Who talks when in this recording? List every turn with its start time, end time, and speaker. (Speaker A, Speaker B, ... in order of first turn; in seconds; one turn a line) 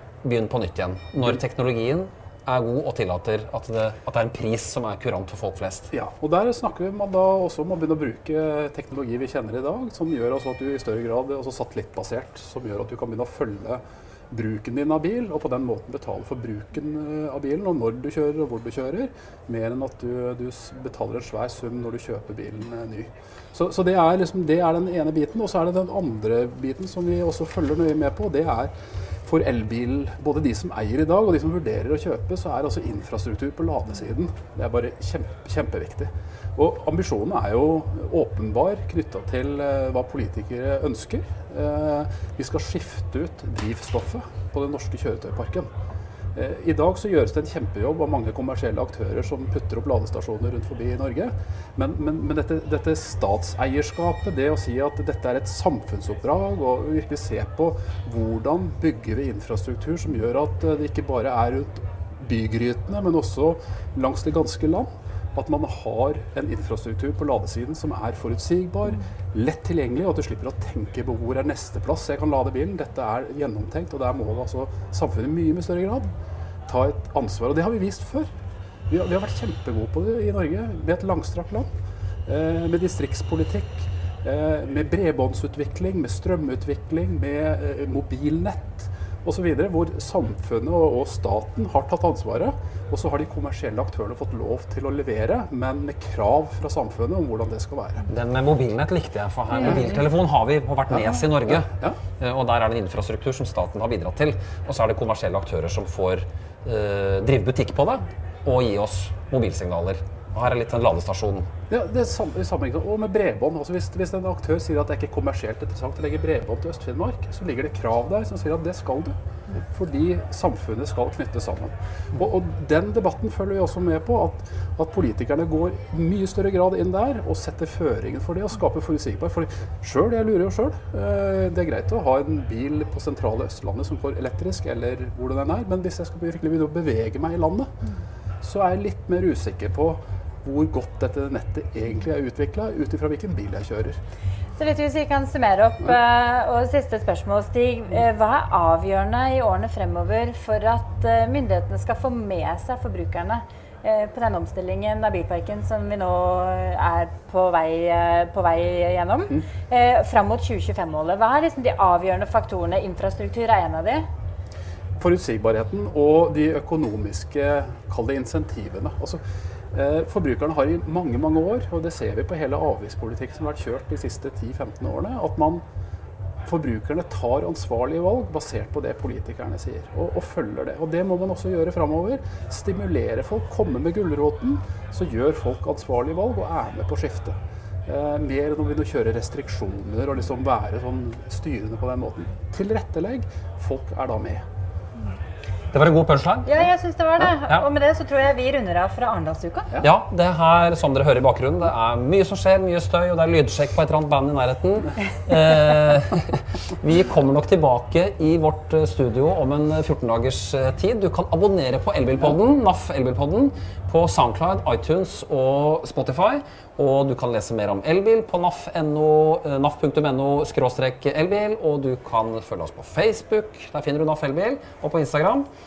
Speaker A: 0.2-5.9
Speaker B: 5.9-28.7
Speaker B: 29.2-45.7
Speaker B: 46.4-76.1
Speaker B: 76.7-78.3
Speaker B: 78.9-81.7
Speaker B: 82.3-98.1
Speaker A: 98.1-111.5
Speaker B: 101.5-102.0
Speaker B: 111.7-137.7
Speaker B: 138.4-144.0
Speaker C: 144.6-164.1
Speaker B: 165.0-175.6
Speaker B: 176.4-187.3
Speaker B: 187.9-194.4
Speaker A: 195.7-196.7
Speaker C: 196.5-199.7
Speaker A: 199.8-225.5